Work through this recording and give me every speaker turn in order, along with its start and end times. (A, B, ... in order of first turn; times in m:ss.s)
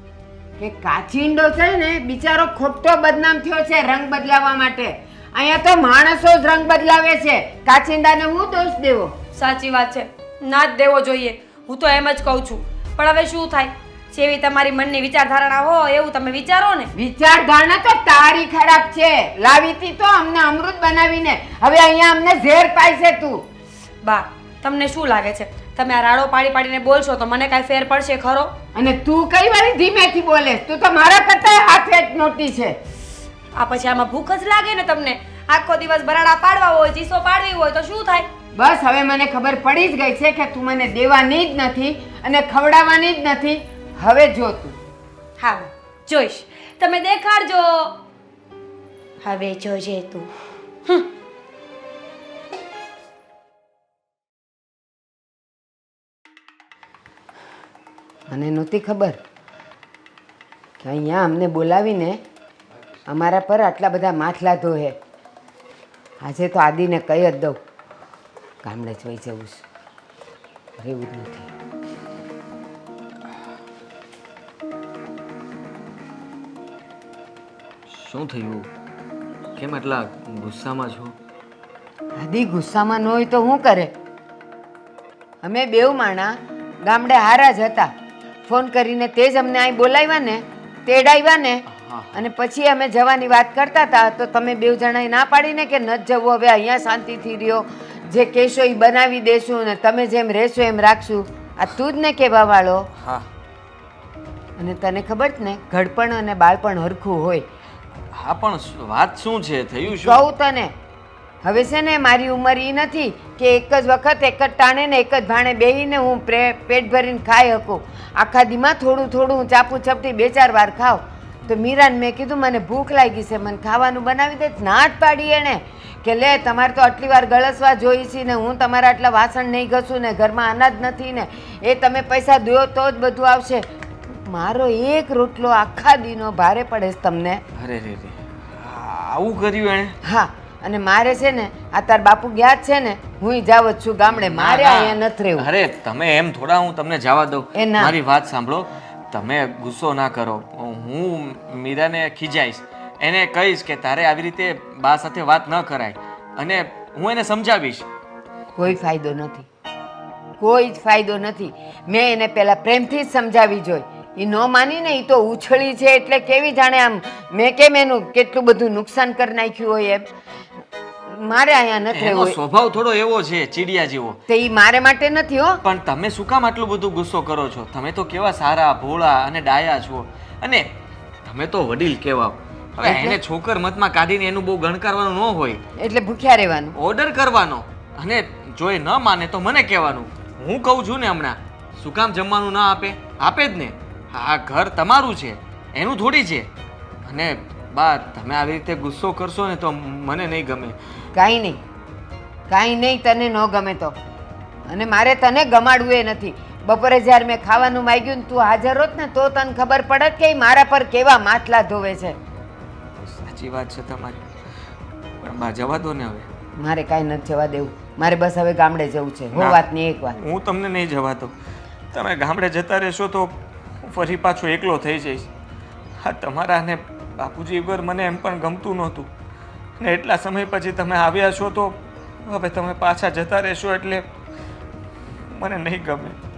0:00.6-0:09.1 A
0:09.4-0:16.9 B
0:17.0-0:23.4 A
0:24.0-0:28.5 B
0:28.7-0:32.8 A
0:33.6-0:38.3 B
0:38.5-0:44.8 A
0:45.4-0:48.0 B
0:49.2-0:50.3 B
0:58.3-0:59.2 A
1:00.8-1:02.2 A
1:03.1-1:05.0 A
1:06.2-1:07.6 A
1:08.6-1:09.6 A
1:10.8-1:11.5 A
1:17.9-1:18.7 C
1:19.6-1:21.1 C
1:22.2-1:23.9 A
1:25.4-1:27.9 A
1:28.5-1:42.9 A
1:31.8-1:32.1 C
1:44.6-1:47.4 A
1:48.1-1:50.2 C
1:49.9-1:50.7 A
1:51.4-2:17.4 A
2:17.5-2:20.0 C
2:20.0-2:25.5 A
2:24.0-2:37.8 C
2:27.6-2:27.9 A
2:38.6-2:39.5 A
2:40.4-2:50.1 A
2:51.1-2:52.4 A
2:51.9-2:54.2 C
2:54.3-2:55.6 A
2:55.6-3:00.7 C
3:01.2-3:05.6 C
3:02.8-3:03.2 A
3:05.8-3:06.7 A
3:06.8-3:16.5 C
3:17.0-3:20.7 C
3:21.1-3:21.6 A
3:22.5-3:24.0 A
3:24.7-3:32.2 A
3:33.0-3:34.3 C
3:35.2-3:36.2 C
3:36.6-3:40.2 A
3:39.3-3:39.6 C
3:40.2-3:41.3 C
3:41.9-3:45.3 C
3:46.0-3:49.1 C
3:49.8-3:54.0 C
3:55.3-3:56.2 C